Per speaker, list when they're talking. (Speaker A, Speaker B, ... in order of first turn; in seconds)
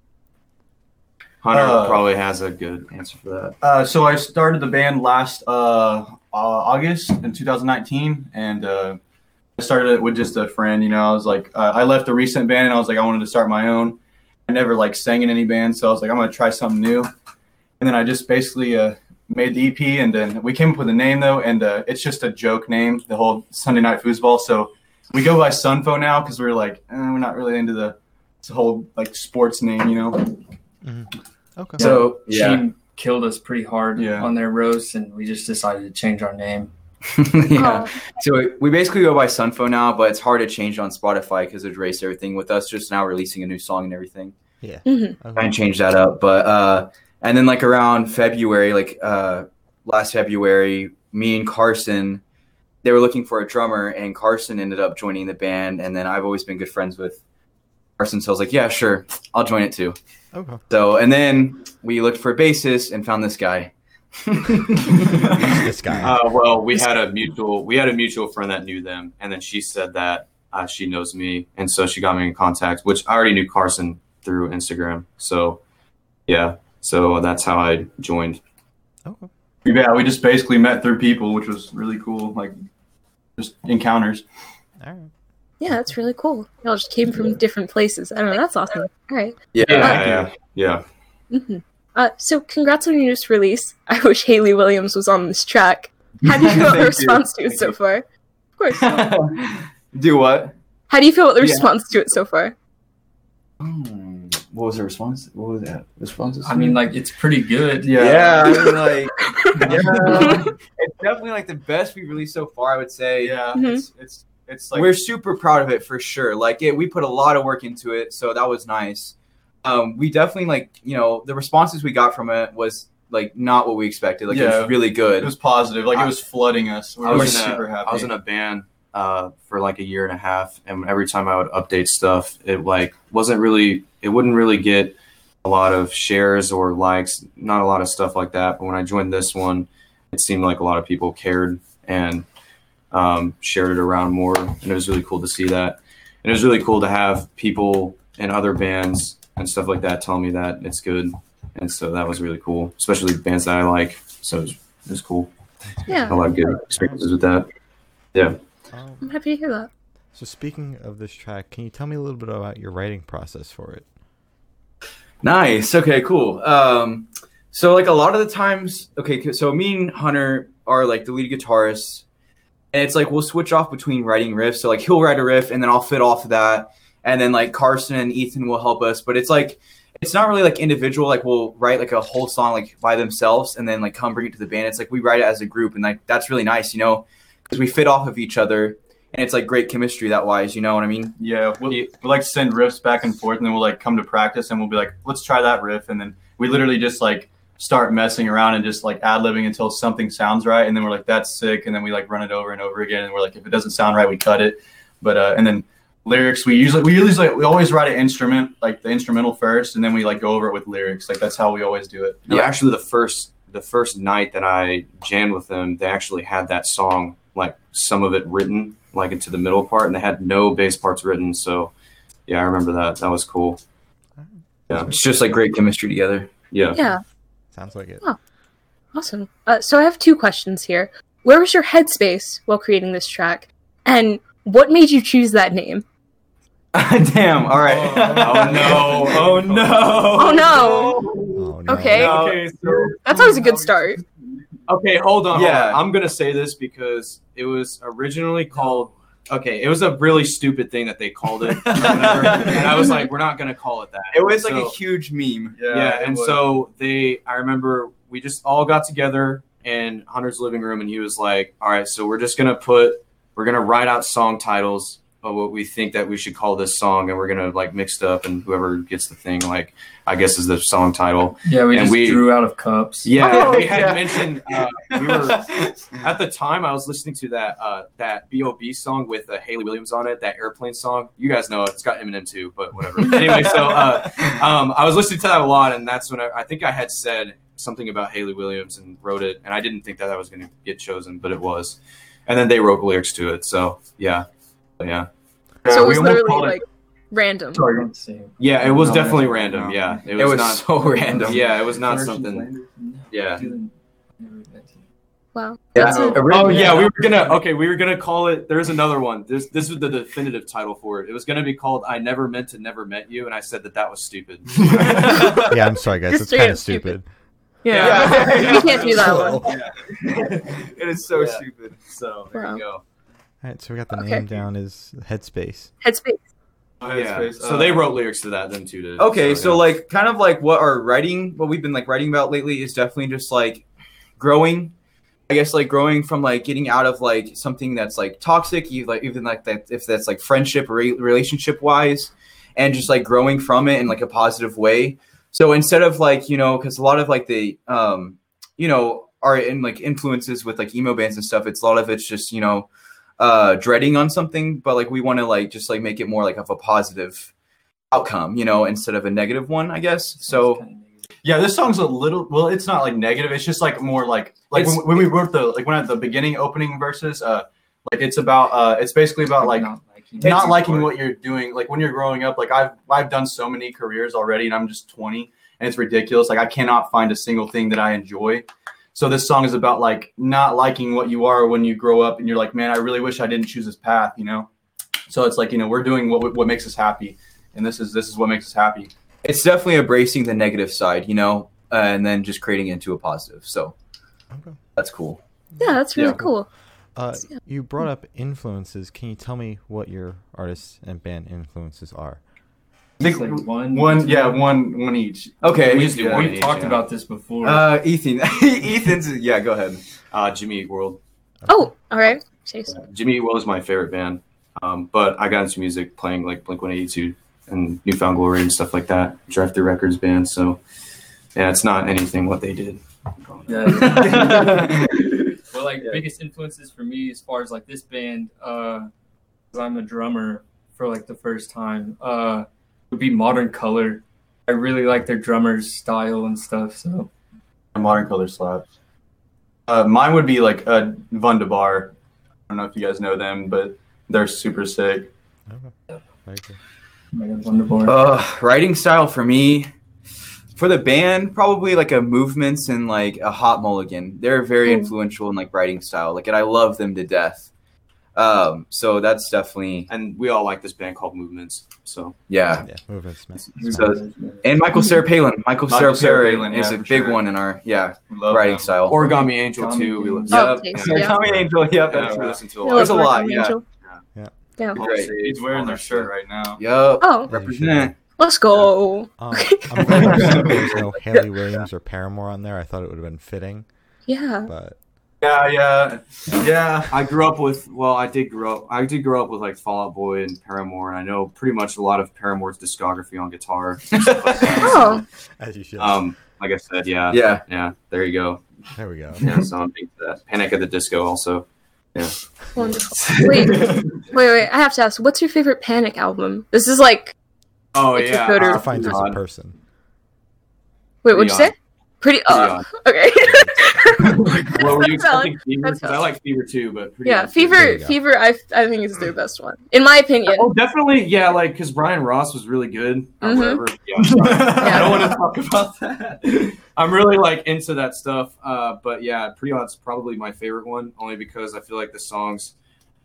Speaker A: 1.4-3.5, 66.0-75.6, 76.3-78.4, 89.6-90.8, 127.0-142.2, 142.9-155.3, 156.1-157.5, 191.7-191.9, 212.3-221.7, 222.3-223.6, 226.5-226.8, 238.2-243.1, 244.7-254.4, 255.7-272.3, 273.1-294.3, 294.8-295.1, 298.4-300.6, 301.2-302.5, 303.1-303.5, 305.8-315.5, 317.7-322.8, 326.9-329.7, 364.5-365.1, 370.4-370.9, 405.7-406.8, 410.1-411.0, 412.7-420.6, 421.3-424.8, 459.9-462.1, 468.9-473.1, 474.7-476.1, 486.9-495.0, 495.8-498.4, 499.1-504.0, 507.7-509.2, 511.1-511.5, 512.3-512.7, 514.0-517.7, 520.2-532.5
Speaker B: 1.5-2.0, 3.6-9.0, 9.6-17.1, 17.8-30.4, 33.9-34.3, 79.6-82.5, 83.4-84.2, 89.9-90.3, 107.8-108.6, 109.6-110.5, 113.2-114.9, 124.3-128.1, 191.2-212.4, 243.1-244.0, 251.7-252.6, 254.4-254.7, 255.5-256.5, 295.6-296.6, 297.5-297.9, 314.7-315.2, 326.8-327.9, 361.2-384.5, 385.1-388.9, 403.0-406.3, 437.7-438.6, 439.7-441.9, 442.5-445.1, 465.7-467.2, 468.1-468.8, 475.1-476.6, 479.8-480.7, 485.2-486.9, 524.0-525.2
Speaker C: 30.8-32.0, 44.6-45.7, 60.3-60.6, 65.3-66.2, 79.0-79.3, 84.8-85.1, 155.9-157.0, 158.7-159.1, 160.1-163.9, 227.5-228.1, 241.3-242.1, 315.1-317.1, 319.0-319.4, 323.4-325.7, 394.3-394.6, 396.9-402.2, 445.5-446.6, 462.6-464.0, 471.2-471.5, 477.3-477.9, 479.2-483.7, 484.4-484.8, 495.4-496.0, 498.7-499.2, 508.4-509.6, 513.2-514.1, 517.5-518.0
Speaker D: 31.8-36.7, 106.4-108.0, 237.5-240.1, 271.4-273.1, 297.7-299.8, 300.9-304.8, 306.3-307.3, 360.2-361.1, 369.4-370.8, 403.0-404.5, 405.7-407.7, 423.5-424.7, 425.3-428.9, 429.5-437.1, 447.1-447.9, 463.6-464.5, 469.0-470.4
Speaker E: 31.8-32.6, 37.1-44.3, 45.4-52.2, 52.8-57.2, 58.0-60.0, 60.7-65.6, 89.5-90.0, 96.2-97.7, 98.7-100.5, 101.4-101.7, 103.6-106.8, 107.9-113.4, 114.7-125.3, 127.1-127.4, 165.2-172.0, 172.7-191.1, 224.7-226.3, 236.7-241.2, 242.0-242.8, 245.3-245.8, 251.7-252.7, 254.1-255.6, 273.1-275.6, 283.0-284.2, 300.2-301.5, 305.7-306.9, 317.7-321.8, 329.0-333.6, 334.2-334.7, 335.3-357.3, 357.9-360.6, 389.2-393.7, 394.8-395.2, 395.9-396.2, 405.4-406.2, 407.4-409.8, 423.9-424.9, 447.8-449.7, 450.6-457.5, 458.1-459.9, 462.3-462.7, 463.7-469.1, 470.3-473.6, 474.7-475.1, 476.6-477.9, 494.0-494.3, 497.1-497.4
Speaker F: 37.5-38.1, 44.9-45.2, 85.6-90.0, 91.3-98.0, 98.6-99.1, 100.9-102.5, 108.5-110.5, 113.5-113.8, 155.9-156.2, 159.0-159.7, 228.9-235.8, 240.1-241.0, 241.7-242.2, 242.9-244.0, 252.7-253.0, 295.7-297.7, 305.3-306.3, 316.1-317.0, 317.6-319.4, 322.3-322.6, 323.9-324.2, 325.8-326.2, 395.6-396.5, 411.5-412.8, 454.6-454.9, 464.7-465.0, 470.3-471.2, 472.6-473.6, 477.0-477.3, 478.2-480.2, 484.1-484.5, 494.6-495.0, 502.6-507.1, 507.9-509.0, 511.0-516.0, 517.0-520.5, 523.2-523.6, 524.5-525.0